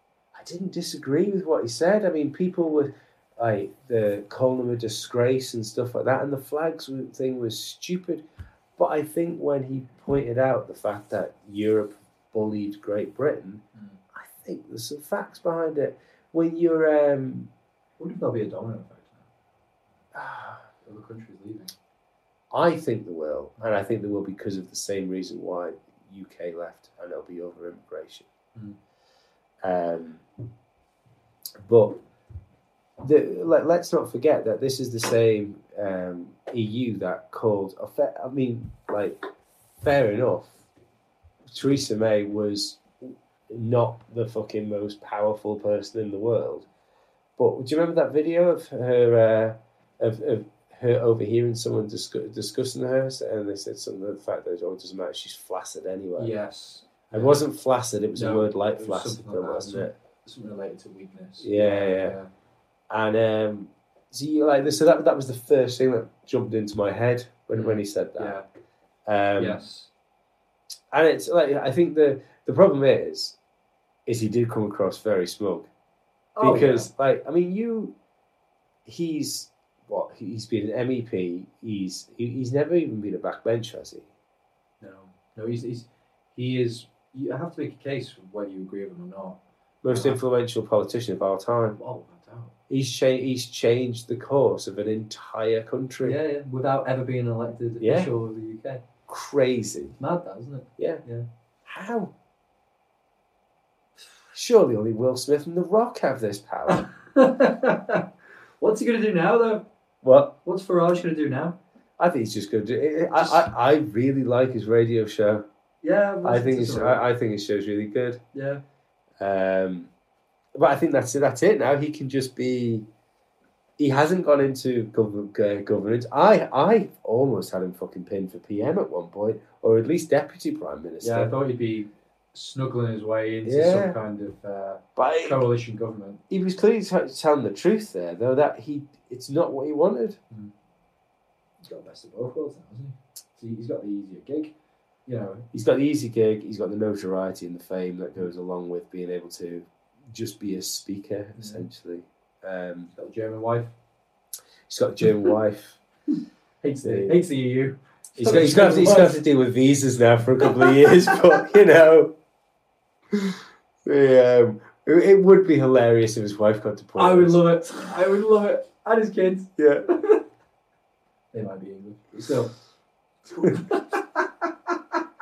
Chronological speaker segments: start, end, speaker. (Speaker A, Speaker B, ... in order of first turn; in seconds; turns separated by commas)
Speaker A: 0.3-8.2, Speaker A: 8.8-13.6, Speaker A: 14.1-17.5, Speaker B: 18.0-19.2, Speaker A: 20.1-20.6, Speaker B: 20.8-21.7, Speaker A: 22.5-28.3, Speaker A: 29.6-30.2, Speaker A: 31.6-32.0, Speaker A: 33.0-39.2, Speaker A: 39.8-40.5, Speaker A: 41.5-46.7, Speaker A: 47.4-56.3, Speaker B: 56.2-57.4, Speaker A: 57.1-59.9, Speaker B: 58.1-62.3, Speaker A: 61.4-62.1, Speaker A: 62.9-68.3, Speaker B: 67.5-68.5, Speaker A: 69.0-69.6, Speaker B: 69.4-69.9, Speaker A: 70.9-73.3, Speaker A: 74.0-75.7, Speaker B: 76.3-76.9, Speaker A: 76.4-77.9, Speaker A: 78.8-84.1, Speaker B: 84.8-89.4, Speaker A: 89.8-91.8, Speaker B: 89.9-90.2, Speaker B: 91.7-92.5, Speaker A: 92.7-96.2, Speaker B: 96.0-98.8, Speaker A: 97.8-98.1, Speaker A: 99.1-100.0, Speaker B: 100.0-101.2, Speaker A: 100.8-101.0, Speaker A: 101.7-102.1, Speaker A: 104.3-106.8, Speaker B: 106.7-108.0, Speaker B: 108.6-109.6, Speaker A: 110.0-110.3, Speaker B: 110.4-111.6, Speaker A: 112.0-115.4, Speaker B: 113.2-113.4, Speaker B: 115.8-117.0, Speaker A: 116.2-118.2, Speaker B: 118.3-118.6, Speaker A: 119.2-119.9, Speaker A: 120.5-122.9, Speaker A: 123.8-131.3, Speaker B: 131.0-136.2, Speaker A: 133.4-134.0, Speaker A: 134.9-135.4, Speaker A: 136.3-140.2, Speaker B: 141.6-144.5, Speaker B: 145.1-145.4, Speaker A: 145.5-152.9, Speaker B: 151.4-151.6, Speaker B: 152.9-153.7, Speaker A: 154.7-155.8, Speaker B: 156.6-159.2, Speaker A: 156.8-157.2, Speaker A: 158.2-162.1, Speaker B: 160.4-161.1, Speaker A: 163.1-167.5, Speaker B: 166.9-170.2, Speaker A: 169.6-169.8, Speaker B: 171.3-172.5, Speaker B: 173.3-174.5